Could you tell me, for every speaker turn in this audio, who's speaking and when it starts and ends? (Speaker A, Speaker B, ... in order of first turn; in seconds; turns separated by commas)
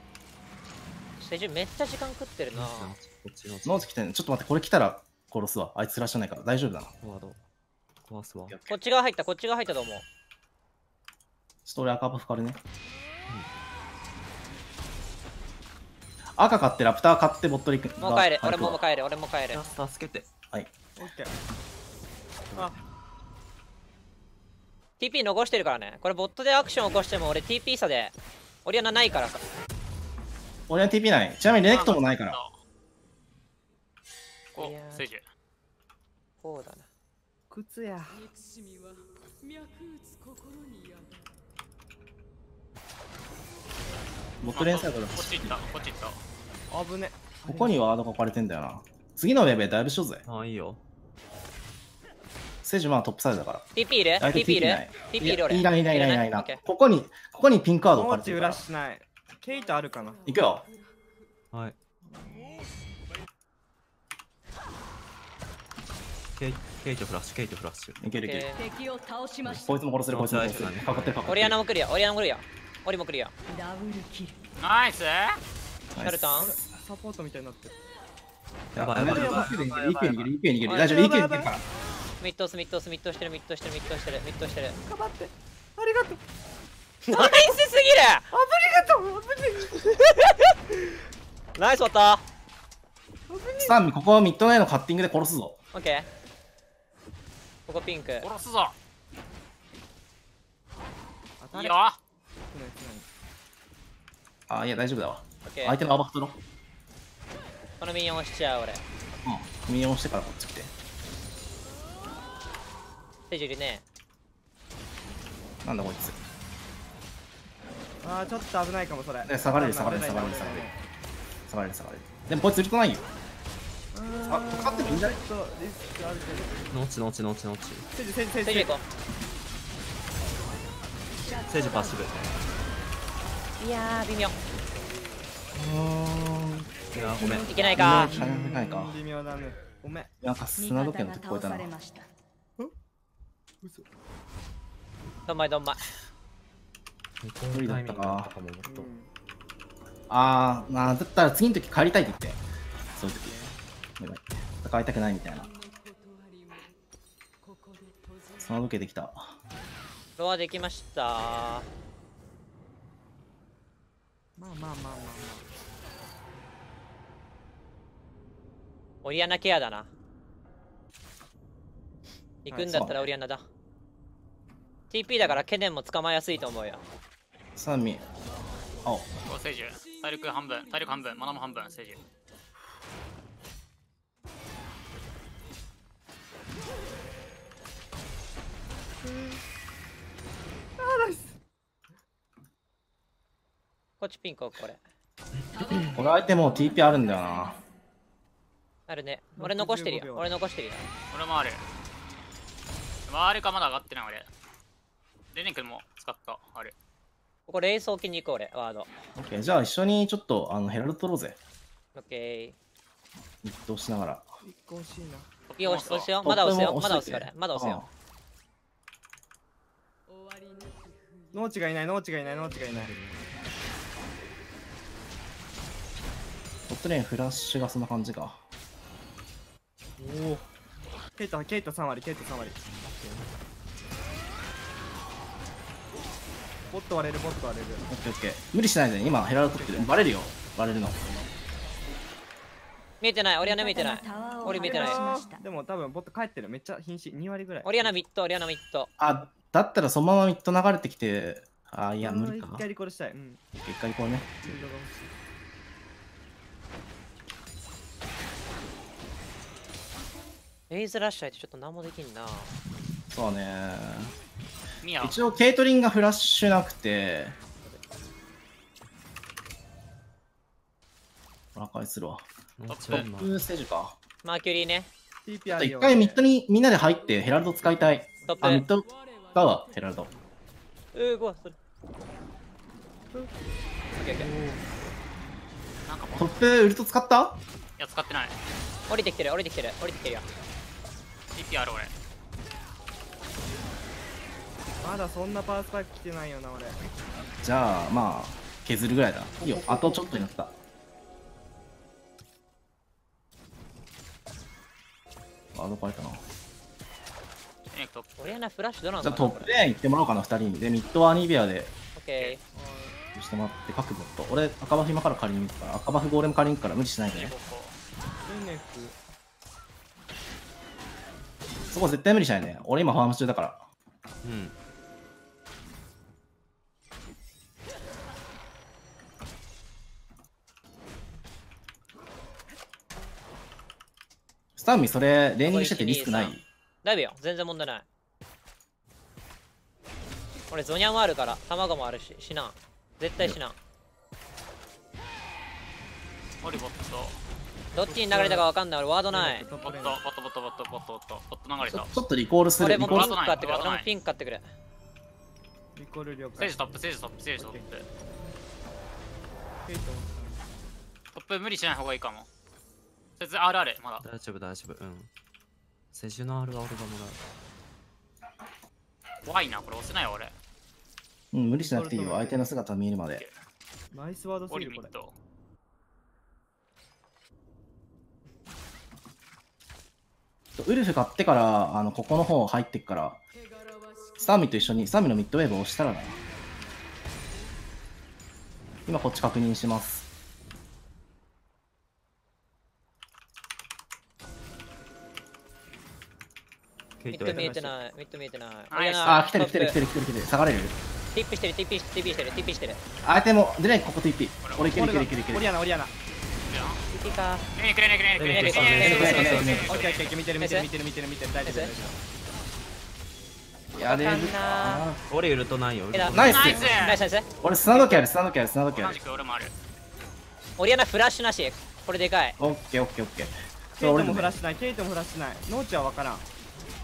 Speaker A: 1.2-3.0, Speaker B: 2.5-3.9, Speaker C: 3.6-6.9, Speaker B: 7.0-7.4, Speaker B: 8.0-8.6, Speaker C: 8.5-8.8, Speaker A: 8.7-10.0, Speaker C: 11.7-12.6, Speaker C: 16.4-18.8, Speaker A: 18.0-19.6, Speaker B: 19.5-20.3, Speaker D: 21.0-21.4, Speaker B: 22.5-22.8, Speaker A: 25.0-28.1, Speaker A: 28.6-29.4, Speaker C: 30.7-32.4, Speaker E: 31.6-32.5, Speaker E: 34.5-35.2, Speaker A: 34.5-35.0, Speaker A: 36.4-36.9, Speaker D: 37.5-38.3, Speaker C: 44.4-45.5, Speaker E: 44.5-46.2, Speaker D: 46.7-48.0, Speaker C: 47.5-50.2, Speaker B: 50.2-50.8, Speaker C: 52.6-53.7, Speaker A: 53.8-56.6, Speaker C: 54.2-58.6, Speaker D: 57.9-60.2, Speaker C: 60.2-60.6, Speaker B: 66.4-68.1, Speaker C: 68.0-68.5, Speaker A: 68.2-68.6, Speaker F: 68.5-69.8, Speaker B: 69.5-71.3, Speaker C: 69.5-71.5, Speaker A: 71.2-73.3, Speaker F: 73.5-74.4, Speaker E: 74.6-75.4, Speaker C: 75.9-76.6, Speaker A: 76.0-76.5, Speaker D: 76.4-77.8, Speaker C: 78.7-81.6, Speaker B: 78.8-80.3, Speaker D: 78.9-80.1, Speaker A: 80.6-81.0, Speaker D: 80.7-81.5, Speaker A: 82.2-84.8, Speaker D: 84.8-86.2, Speaker A: 87.0-88.2, Speaker D: 87.1-87.5, Speaker D: 88.3-90.0, Speaker A: 90.1-90.5, Speaker A: 91.5-92.2, Speaker D: 93.3-93.8, Speaker C: 93.6-95.6, Speaker A: 95.7-96.1, Speaker A: 97.7-98.3, Speaker E: 98.2-98.8, Speaker D: 101.4-101.8, Speaker E: 101.5-102.0, Speaker D: 102.5-103.0, Speaker C: 104.5-106.4, Speaker A: 105.5-105.8, Speaker A: 107.8-108.8, Speaker C: 109.2-110.7, Speaker A: 113.3-113.8, Speaker C: 115.6-116.2, Speaker D: 118.0-120.8, Speaker C: 119.2-120.7, Speaker C: 121.5-123.1, Speaker D: 123.9-126.7, Speaker C: 124.3-125.2, Speaker B: 126.7-127.9, Speaker D: 127.9-128.8, Speaker A: 128.4-128.8, Speaker F: 131.2-132.1, Speaker B: 131.5-132.4, Speaker A: 133.6-134.3, Speaker C: 135.6-136.7, Speaker B: 136.9-138.2, Speaker F: 137.1-137.7, Speaker D: 137.2-140.1, Speaker C: 137.2-139.0, Speaker A: 137.4-138.1, Speaker C: 140.2-141.7, Speaker F: 140.6-142.1, Speaker A: 145.3-145.8, Speaker B: 147.2-148.9, Speaker C: 147.5-148.3, Speaker D: 148.7-149.1, Speaker C: 150.1-152.4, Speaker C: 152.9-153.3, Speaker D: 153.2-153.6, Speaker C: 154.0-155.5, Speaker C: 158.3-159.4, Speaker A: 160.2-161.7, Speaker D: 164.4-165.5, Speaker A: 169.0-169.9, Speaker A: 172.4-173.4, Speaker D: 172.5-172.8, Speaker C: 172.6-173.1, Speaker A: 174.9-176.8, Speaker C: 177.6-178.1, Speaker E: 179.3-182.0, Speaker D: 189.0-189.4, Speaker D: 190.8-191.3, Speaker A: 194.0-194.8, Speaker F: 195.5-197.6, Speaker C: 195.9-197.6, Speaker A: 198.9-200.9, Speaker D: 199.3-200.3, Speaker E: 201.1-201.6, Speaker E: 203.1-204.3, Speaker E: 205.3-206.7, Speaker A: 207.5-208.9, Speaker C: 209.1-211.4, Speaker A: 211.9-212.6, Speaker C: 213.4-214.3, Speaker D: 214.4-215.3, Speaker E: 215.5-216.3, Speaker A: 215.6-217.8, Speaker C: 216.2-217.9, Speaker D: 221.3-222.9, Speaker B: 222.7-223.4, Speaker C: 226.7-228.4, Speaker D: 230.0-230.5, Speaker D: 231.1-232.6, Speaker B: 232.7-233.3, Speaker D: 236.7-237.8, Speaker C: 237.9-241.3, Speaker D: 239.5-240.0, Speaker A: 243.0-245.0, Speaker F: 243.4-245.4, Speaker D: 244.5-247.9, Speaker A: 247.6-248.9, Speaker C: 249.0-252.6, Speaker D: 252.0-253.4, Speaker C: 253.6-254.4, Speaker D: 254.1-255.1, Speaker A: 260.7-262.5, Speaker C: 263.1-264.1, Speaker E: 264.8-265.3, Speaker C: 265.0-267.4, Speaker C: 271.5-272.2, Speaker B: 272.6-273.4, Speaker E: 272.7-273.1, Speaker C: 272.9-274.0, Speaker A: 274.2-274.9, Speaker D: 275.2-276.2, Speaker C: 275.5-280.1, Speaker A: 278.2-278.6, Speaker D: 278.2-278.6, Speaker A: 280.9-281.6, Speaker A: 283.9-284.3, Speaker D: 284.1-284.6, Speaker E: 285.9-286.4, Speaker C: 286.1-287.4, Speaker E: 287.8-288.4, Speaker A: 288.9-290.2, Speaker E: 291.3-291.9, Speaker D: 294.8-296.8, Speaker C: 297.4-300.6, Speaker D: 299.4-300.2, Speaker C: 305.5-306.2, Speaker E: 307.7-308.2, Speaker A: 308.2-309.5, Speaker C: 309.0-311.7, Speaker A: 311.9-312.4, Speaker D: 312.5-313.0, Speaker C: 313.1-317.3, Speaker E: 317.1-317.8, Speaker D: 318.3-319.0, Speaker C: 321.7-323.6, Speaker B: 324.2-324.5, Speaker C: 334.6-336.4, Speaker A: 335.4-337.8, Speaker A: 340.5-343.6, Speaker E: 346.4-347.2, Speaker A: 347.7-349.5, Speaker D: 347.8-348.5, Speaker D: 349.1-350.0, Speaker E: 349.6-351.9, Speaker C: 351.6-353.2, Speaker A: 352.6-354.4, Speaker E: 352.8-353.9, Speaker D: 355.8-356.6, Speaker E: 356.4-357.9, Speaker D: 357.4-357.6, Speaker D: 359.6-360.5, Speaker E: 361.1-362.3, Speaker E: 363.2-364.0, Speaker B: 364.0-365.1, Speaker B: 365.9-367.2, Speaker E: 369.2-370.3, Speaker C: 371.3-373.3, Speaker D: 371.7-372.5, Speaker D: 373.9-374.9, Speaker E: 374.5-375.1, Speaker C: 380.6-383.2, Speaker C: 384.2-386.2, Speaker C: 388.9-390.1, Speaker B: 397.0-397.6, Speaker A: 397.1-399.8, Speaker D: 397.1-397.7, Speaker E: 398.7-399.3, Speaker C: 399.0-400.8, Speaker A: 401.1-402.8, Speaker C: 403.0-405.5, Speaker E: 404.4-404.9, Speaker D: 404.7-405.9, Speaker E: 406.4-406.8, Speaker A: 406.9-407.4, Speaker E: 407.5-410.2, Speaker B: 408.2-409.7, Speaker A: 408.3-409.6, Speaker C: 408.8-409.7, Speaker D: 409.1-412.0, Speaker A: 410.4-410.7, Speaker A: 411.4-411.7, Speaker C: 413.7-415.0, Speaker A: 413.8-414.8, Speaker B: 415.1-416.7, Speaker A: 415.9-417.2, Speaker C: 416.1-416.8, Speaker E: 416.1-417.0, Speaker D: 416.3-417.0, Speaker C: 417.4-419.0, Speaker E: 417.7-418.0, Speaker E: 418.7-419.5, Speaker A: 420.6-422.4, Speaker C: 422.4-424.4, Speaker D: 423.8-426.2